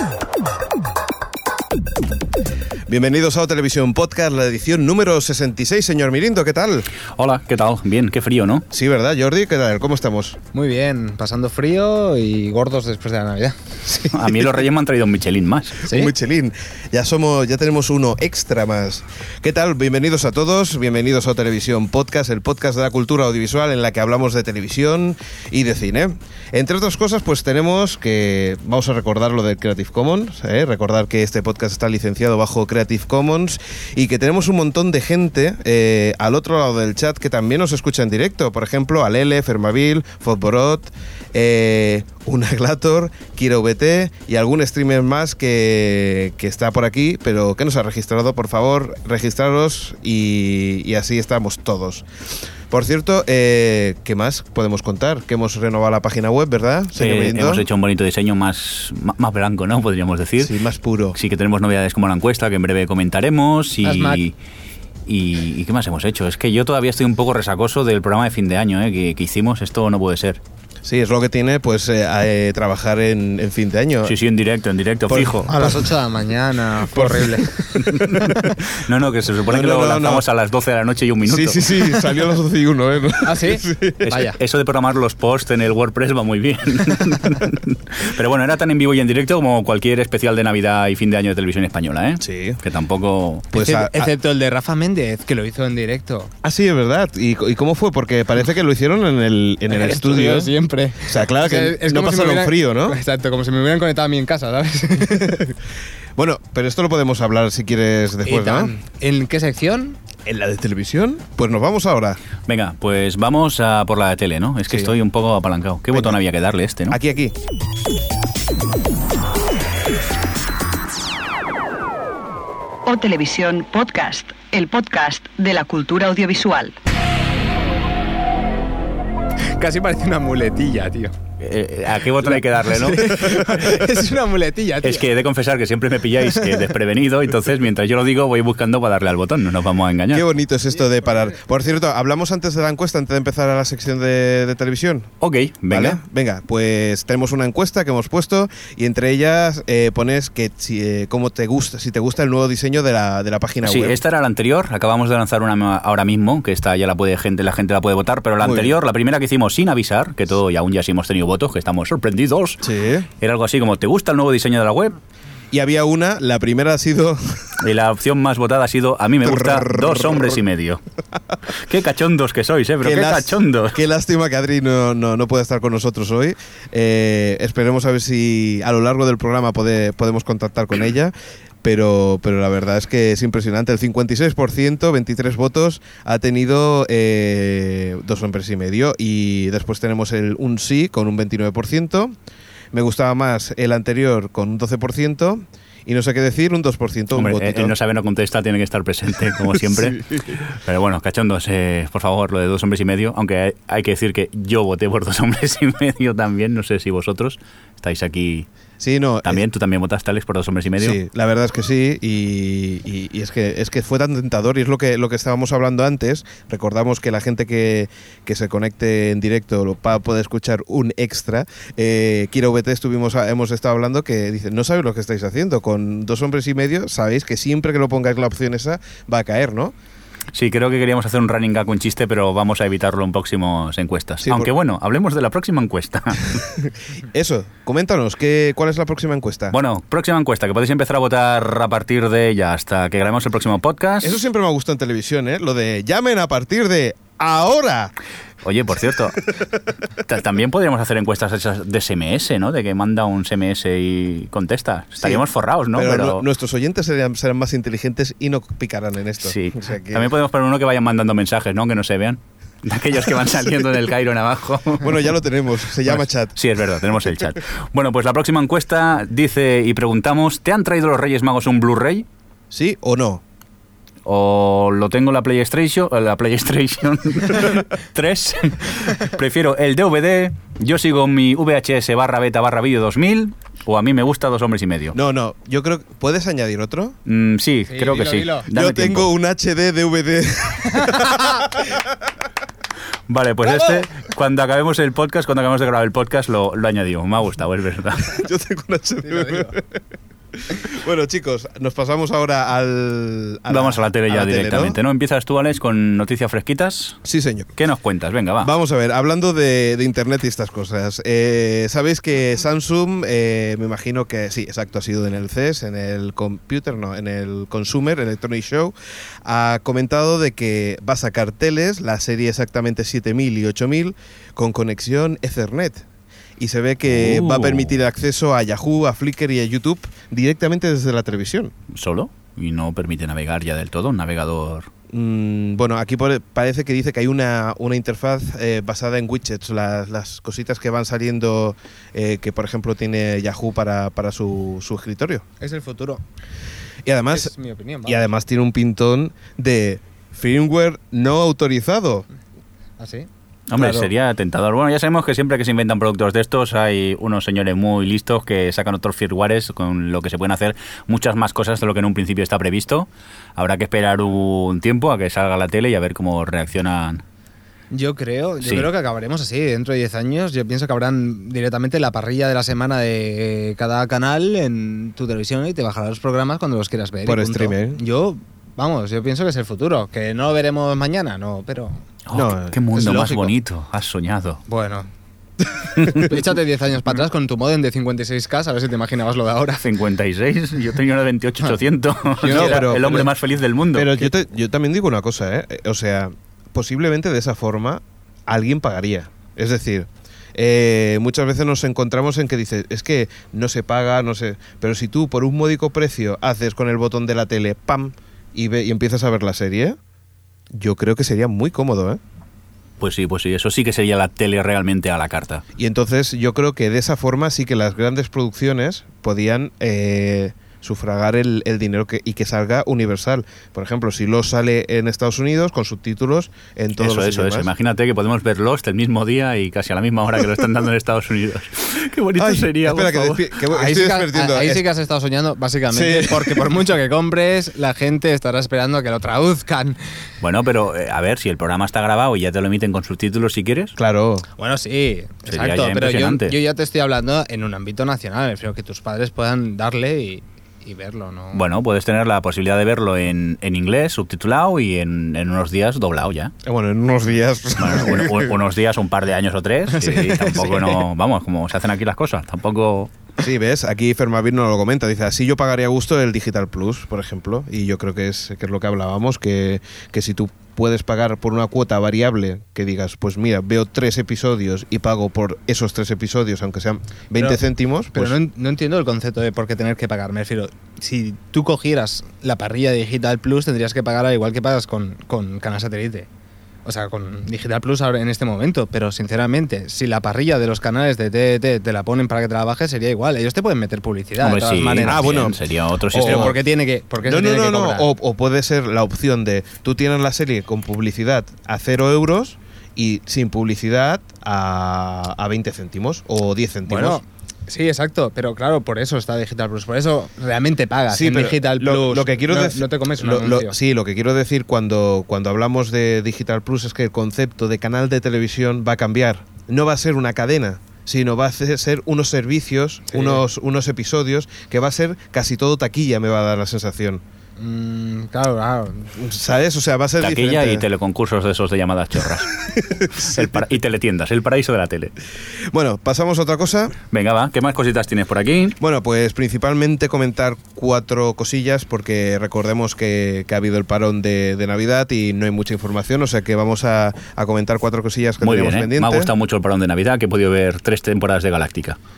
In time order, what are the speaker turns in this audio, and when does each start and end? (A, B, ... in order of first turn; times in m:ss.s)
0:02.9-0:06.9 A
0:07.2-0:08.6 B
0:08.7-0:10.4 A
0:10.5-0:14.2 C
0:14.1-0:15.8 B
0:15.8-0:16.1 C
0:15.8-0:52.1 A
0:52.7-0:57.7 A
0:57.0-1:00.5 B
1:00.4-1:01.2 A
1:01.2-1:04.3 B
1:03.8-1:04.2 C
1:05.1-1:10.4 B
1:10.8-1:14.2 A
1:14.0-1:15.5 B
1:15.1-1:15.9 A
1:15.5-1:18.5 C
1:16.9-1:17.5 A
1:17.9-1:22.2 B
1:18.0-1:18.6 A
1:19.5-1:20.3 A
1:21.2-1:24.0 A
1:23.2-1:24.4 C
1:24.0-1:33.5 B
1:32.2-1:32.6 A
1:33.5-1:34.1 A
1:33.5-1:36.3 C
1:36.4-1:43.0 A
1:39.7-1:45.4 C
1:45.0-1:45.6 A
1:46.2-1:48.7 A
1:48.3-1:50.0 C
1:50.2-1:52.2 A
1:52.5-1:57.0 B
1:56.9-1:57.4 A
2:02.9-2:06.8 D
2:09.6-2:11.1 C
2:11.4-2:13.5 B
2:12.2-2:15.1 C
2:14.8-2:20.2 B
2:20.1-2:25.1 A
2:25.2-2:26.0 B
2:25.7-2:34.0 A
2:33.6-2:42.6 B
2:38.4-2:38.7 A
2:42.6-2:43.1 A
2:43.2-2:45.0 B
2:45.5-2:47.5 A
2:47.6-2:50.8 B
2:49.2-2:50.4 A
2:51.6-2:53.8 B
2:52.8-3:12.1 A
3:12.7-3:17.7 A
3:17.1-3:28.5 B
3:19.7-3:20.4 A
3:28.8-3:29.4 A
3:29.2-3:31.0 B
3:30.8-3:49.7 A
3:50.3-3:56.4 B
3:54.2-3:54.5 A
3:57.0-3:59.6 A
3:59.5-4:04.2 B
4:04.0-4:07.9 A
4:08.4-4:09.3 B
4:10.0-4:16.2 B
4:15.0-4:20.1 A
4:19.2-4:25.1 B
4:24.8-4:26.4 A
4:25.9-4:32.1 B
4:32.5-4:33.2 A
4:34.0-4:45.0 B
4:44.9-4:47.0 A
4:47.1-4:49.1 B
4:47.7-4:48.5 C
4:48.5-4:51.9 A
4:50.8-4:51.3 C
4:53.1-4:58.2 B
4:53.5-4:53.8 C
4:58.1-4:59.8 A
4:59.1-4:59.5 C
5:00.4-5:04.8 A
5:03.5-5:07.0 B
5:07.0-5:07.5 A
5:07.6-5:08.5 B
5:08.4-5:25.8 A
5:26.4-5:31.5 A
5:26.9-5:27.8 B
5:31.7-5:34.7 B
5:34.9-5:45.2 A
5:45.4-5:46.0 C
5:46.8-5:47.3 A
5:47.1-5:48.1 C
5:47.9-5:52.1 A
5:52.8-5:53.1 C
5:53.5-6:07.0 B
5:53.6-5:53.8 A
6:07.7-6:21.8 C
6:08.4-6:08.7 B
6:17.1-6:17.8 A
6:22.1-6:24.4 B
6:22.1-6:22.6 A
6:22.8-6:23.3 C
6:24.5-6:24.9 C
6:25.8-6:29.7 C
6:29.6-6:34.1 B
6:32.2-6:33.1 C
6:32.2-6:33.1 A
6:33.7-6:49.8 A
6:50.5-6:52.0 A
6:52.8-6:55.4 B
6:55.6-7:07.5 A
7:06.8-7:13.3 B
7:12.2-7:14.6 A
7:13.5-7:19.8 C
7:15.7-7:16.6 A
7:20.2-7:23.8 B
7:23.8-7:24.3 A
7:24.4-7:31.4 C
7:25.3-7:26.4 B
7:31.3-7:36.3 B
7:36.4-7:38.3 A
7:37.6-7:42.9 B
7:39.8-7:40.4 C
7:39.9-7:40.6 A
7:43.2-7:58.2 A
7:57.2-7:57.4 C
7:57.9-8:06.1 C
8:06.6-8:15.3 C
8:14.2-8:16.4 B
8:14.8-8:15.4 A
8:15.9-8:16.4 A
8:16.0-8:17.9 C
8:17.0-8:27.0 A
8:26.7-8:33.6 C
8:30.9-8:47.0 A
8:42.9-8:43.2 C
8:47.4-8:49.0 C
8:49.0-8:50.6 A
8:50.0-8:52.3 B
8:52.6-8:53.3 A
8:52.9-8:54.9 B
8:55.5-8:56.8 A
8:56.9-8:58.6 B
8:58.6-9:09.1 A
9:08.2-9:11.8 B